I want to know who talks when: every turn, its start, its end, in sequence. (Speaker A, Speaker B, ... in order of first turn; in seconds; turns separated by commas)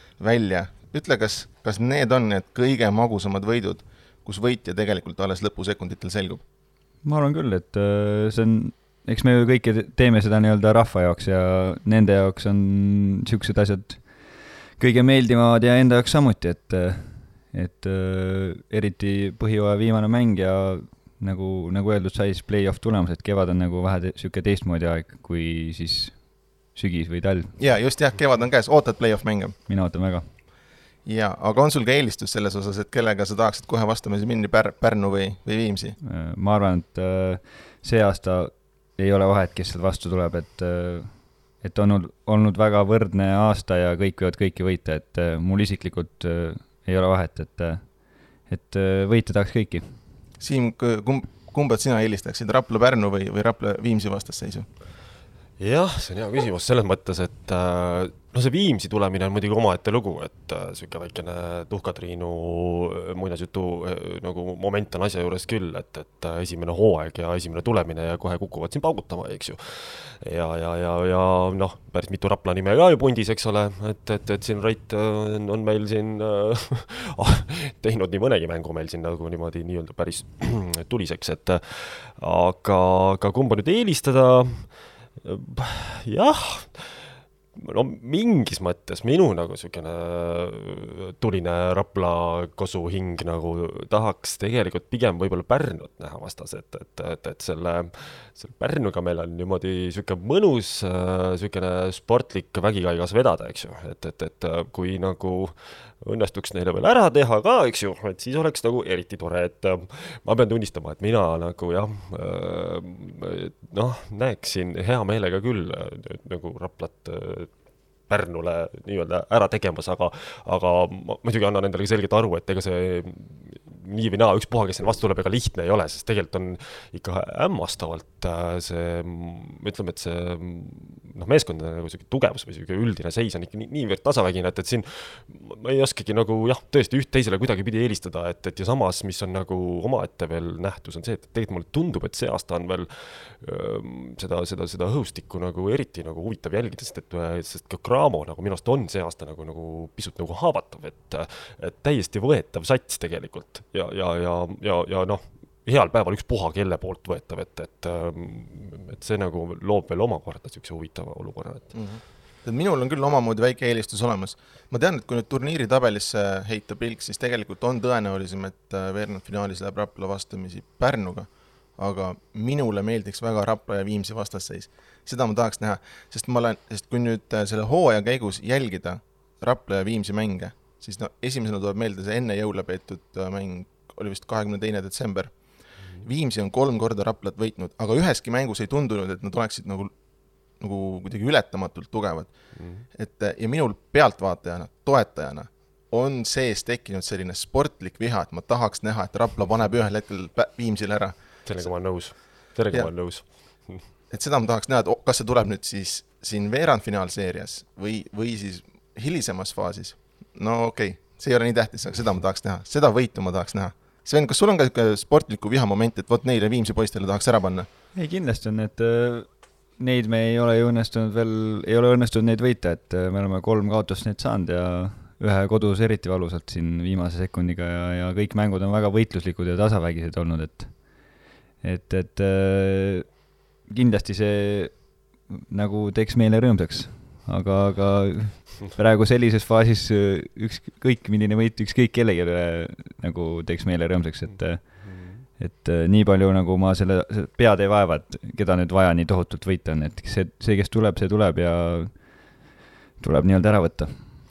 Speaker A: 0.2-6.4, Speaker B: 7.0-27.6, Speaker A: 27.6-29.6, Speaker B: 29.7-30.3, Speaker A: 31.1-36.0, Speaker B: 36.0-50.0, Speaker A: 50.4-54.7, Speaker C: 55.6-161.8, Speaker A: 161.7-190.0, Speaker A: 190.6-201.7, Speaker C: 192.5-192.8, Speaker C: 201.4-203.9, Speaker A: 204.1-217.7, Speaker B: 217.9-252.4, Speaker C: 244.3-245.2, Speaker B: 253.0-254.2